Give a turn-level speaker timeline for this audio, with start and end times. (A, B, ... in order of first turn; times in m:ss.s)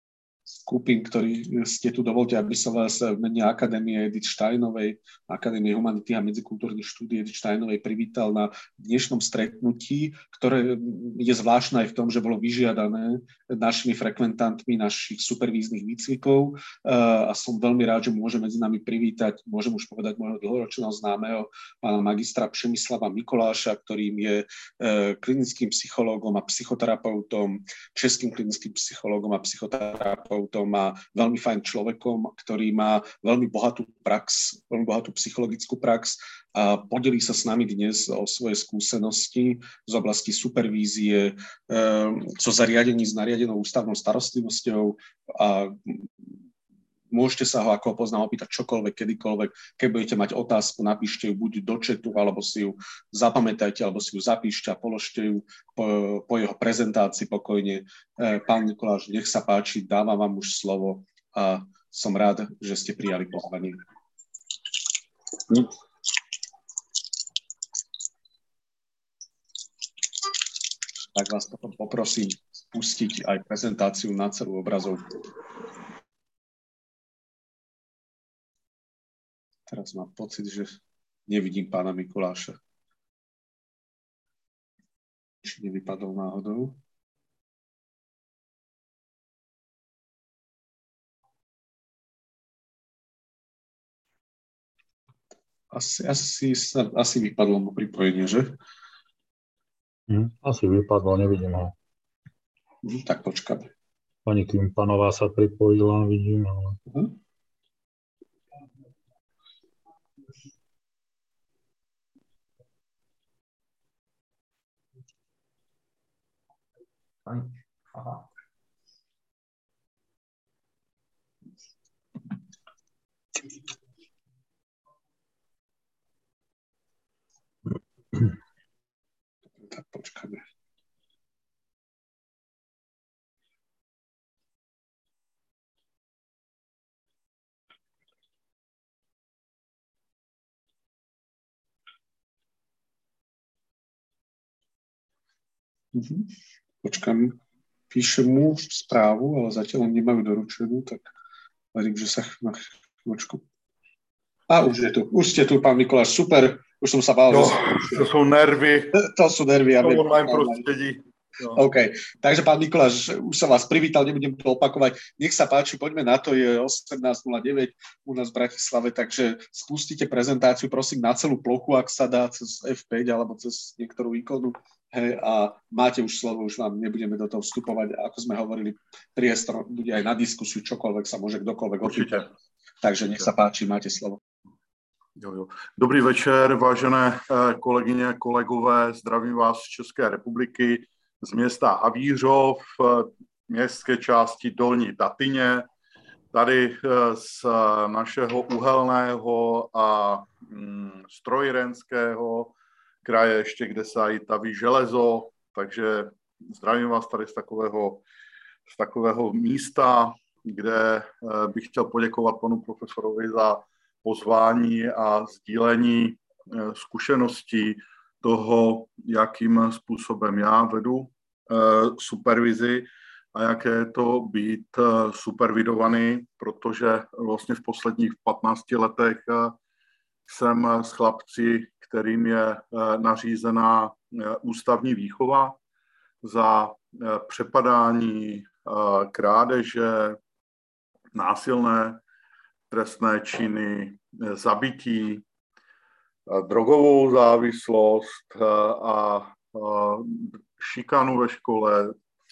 0:00.6-0:46.1 A
0:47.1-1:03.8 A
1:11.1-1:15.2 A
1:19.7-1:22.6 A
1:25.4-1:26.8 A
1:35.7-1:38.6 A
1:40.1-1:41.7 B
1:42.8-1:43.7 A
1:44.2-1:46.8 B
2:09.6-2:10.4 A
2:25.9-2:26.3 A
2:26.8-2:27.4 A
2:27.9-2:31.1 A
2:31.7-2:33.4 A
2:34.5-2:38.0 A
2:37.3-2:39.0 C
2:38.9-2:40.6 A
2:39.8-2:41.6 C
2:41.5-3:02.3 A
3:01.8-3:02.2 C
3:02.8-3:04.2 A
3:05.2-3:15.7 C
3:16.3-3:28.0 C
3:28.7-3:49.6 C
3:50.3-3:55.6 C
3:56.2-4:00.2 C
4:01.1-4:02.0 C
4:02.7-4:05.2 C
4:06.3-4:11.9 C